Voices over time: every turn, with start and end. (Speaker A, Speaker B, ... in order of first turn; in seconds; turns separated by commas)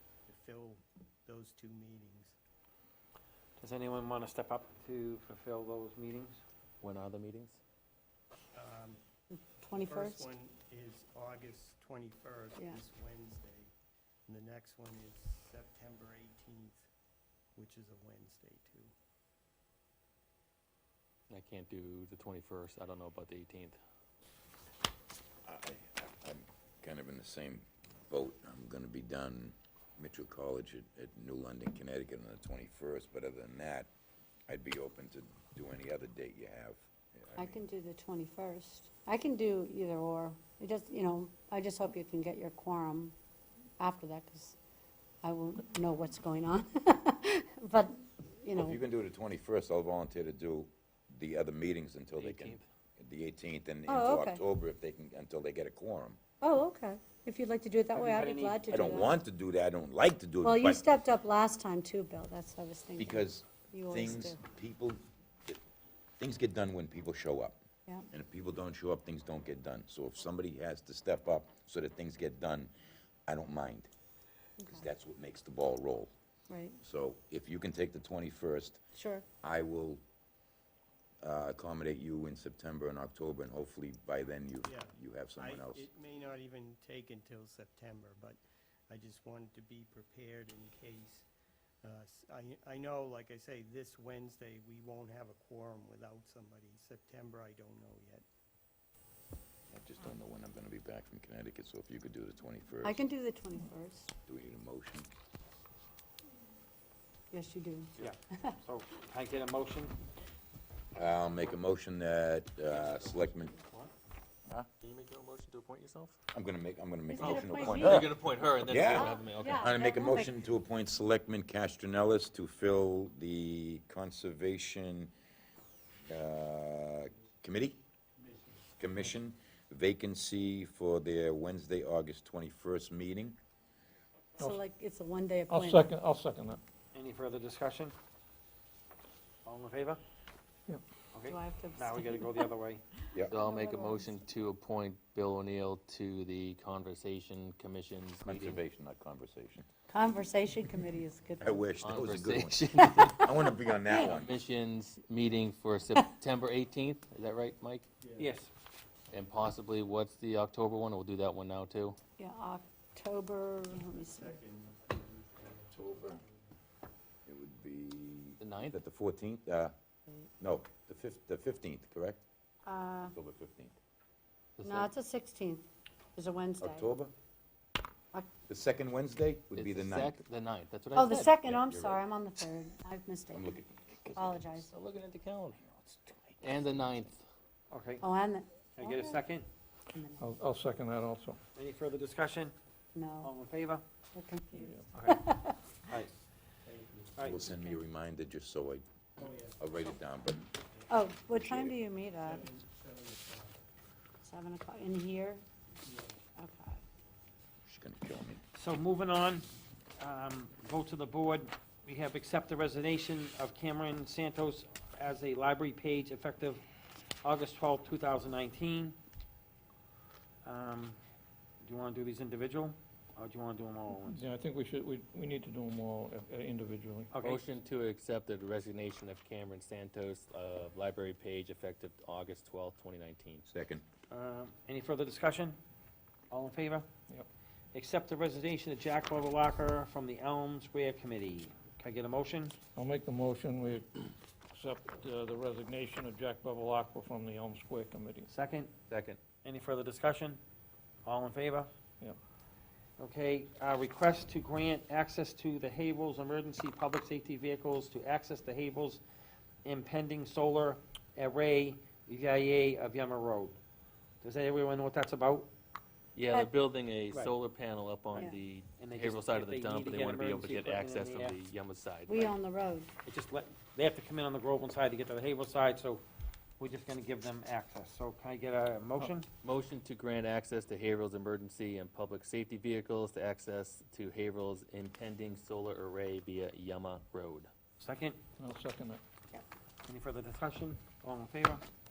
Speaker A: 0.3-2.4, Speaker B: 3.6-6.4, Speaker C: 6.8-7.6, Speaker A: 8.5-9.0, Speaker D: 9.3-10.3, Speaker A: 9.7-13.7, Speaker D: 12.6-12.8, Speaker A: 14.3-16.9, Speaker A: 17.5-18.9, Speaker C: 21.3-23.8, Speaker E: 25.5-33.9, Speaker E: 34.5-37.6, Speaker D: 37.4-43.1, Speaker D: 43.8-44.6, Speaker D: 45.2-48.8, Speaker E: 48.5-56.2, Speaker C: 52.2-52.6, Speaker D: 53.9-54.4, Speaker D: 56.4-59.2, Speaker B: 58.0-59.0, Speaker E: 58.7-60.8, Speaker D: 60.4-64.4, Speaker E: 63.0-65.6, Speaker E: 66.2-72.7, Speaker E: 73.3-73.9, Speaker D: 74.6-74.9, Speaker E: 74.7-76.1, Speaker D: 76.5-76.8, Speaker E: 76.8-78.8, Speaker D: 78.9-79.2, Speaker E: 79.4-80.0, Speaker E: 81.2-85.9, Speaker A: 84.7-91.3, Speaker A: 91.8-98.2, Speaker E: 99.7-103.0, Speaker D: 102.8-104.1, Speaker E: 104.3-105.1, Speaker D: 107.3-108.6, Speaker B: 108.0-110.0, Speaker E: 111.0-113.5, Speaker C: 112.7-113.6, Speaker C: 114.8-116.2, Speaker E: 116.3-125.1, Speaker D: 117.1-118.1, Speaker C: 117.2-119.7, Speaker D: 118.9-120.4, Speaker E: 126.1-127.8, Speaker A: 128.2-128.7, Speaker E: 128.8-133.4, Speaker D: 134.4-135.9, Speaker F: 135.5-136.6, Speaker B: 136.9-137.9, Speaker B: 139.4-140.0, Speaker B: 141.1-142.8, Speaker D: 141.3-142.5, Speaker D: 143.1-144.2, Speaker C: 143.3-148.6, Speaker E: 148.2-149.7, Speaker D: 149.9-151.6, Speaker E: 151.4-154.3, Speaker C: 151.8-153.3, Speaker D: 152.9-153.6, Speaker C: 153.9-157.9, Speaker A: 158.0-158.4, Speaker B: 158.2-158.5, Speaker C: 159.1-162.0, Speaker D: 162.2-164.4, Speaker A: 163.8-166.5, Speaker E: 165.7-166.2, Speaker E: 167.3-169.7, Speaker C: 168.4-168.8, Speaker E: 170.4-172.2, Speaker D: 172.7-173.2, Speaker E: 173.1-173.8, Speaker C: 174.6-174.9, Speaker D: 174.6-177.0, Speaker E: 176.6-177.1, Speaker E: 178.5-180.2, Speaker C: 179.5-181.5, Speaker D: 180.9-183.6, Speaker E: 181.4-182.0, Speaker E: 183.3-184.5, Speaker D: 184.2-184.7, Speaker C: 184.7-185.6, Speaker E: 185.7-186.9, Speaker C: 186.4-187.2, Speaker B: 187.7-188.0, Speaker D: 188.0-189.2, Speaker B: 188.8-189.5, Speaker D: 189.9-190.3, Speaker F: 190.2-191.4, Speaker B: 191.6-192.6, Speaker D: 192.9-193.3, Speaker B: 193.2-193.8, Speaker D: 194.1-195.6, Speaker F: 194.6-194.9, Speaker B: 194.9-195.3, Speaker B: 195.9-196.1, Speaker A: 196.7-197.4, Speaker E: 197.2-198.8, Speaker A: 199.2-199.8, Speaker E: 199.6-200.5, Speaker D: 200.9-202.5, Speaker E: 201.3-201.8, Speaker A: 202.2-203.6, Speaker D: 204.2-205.4, Speaker A: 205.8-206.2, Speaker D: 206.4-206.8, Speaker E: 207.7-208.4, Speaker B: 208.6-209.5, Speaker B: 210.0-216.6, Speaker B: 217.2-219.0, Speaker B: 220.4-221.0, Speaker B: 221.6-224.2, Speaker F: 223.9-227.1, Speaker B: 227.1-227.5, Speaker C: 227.2-233.4, Speaker E: 233.5-233.8, Speaker B: 234.1-235.6, Speaker B: 236.3-236.9, Speaker B: 237.7-242.6, Speaker F: 242.8-248.3, Speaker B: 248.3-248.7, Speaker C: 248.9-249.2, Speaker B: 249.4-250.4, Speaker B: 251.1-251.7, Speaker B: 253.0-259.0, Speaker B: 259.6-263.6, Speaker B: 264.2-265.5, Speaker C: 266.2-272.3, Speaker B: 268.8-271.4, Speaker D: 272.1-272.9, Speaker B: 273.1-276.0, Speaker B: 276.6-279.3, Speaker C: 279.4-287.5, Speaker B: 287.8-288.2, Speaker F: 288.4-289.0, Speaker B: 289.9-291.6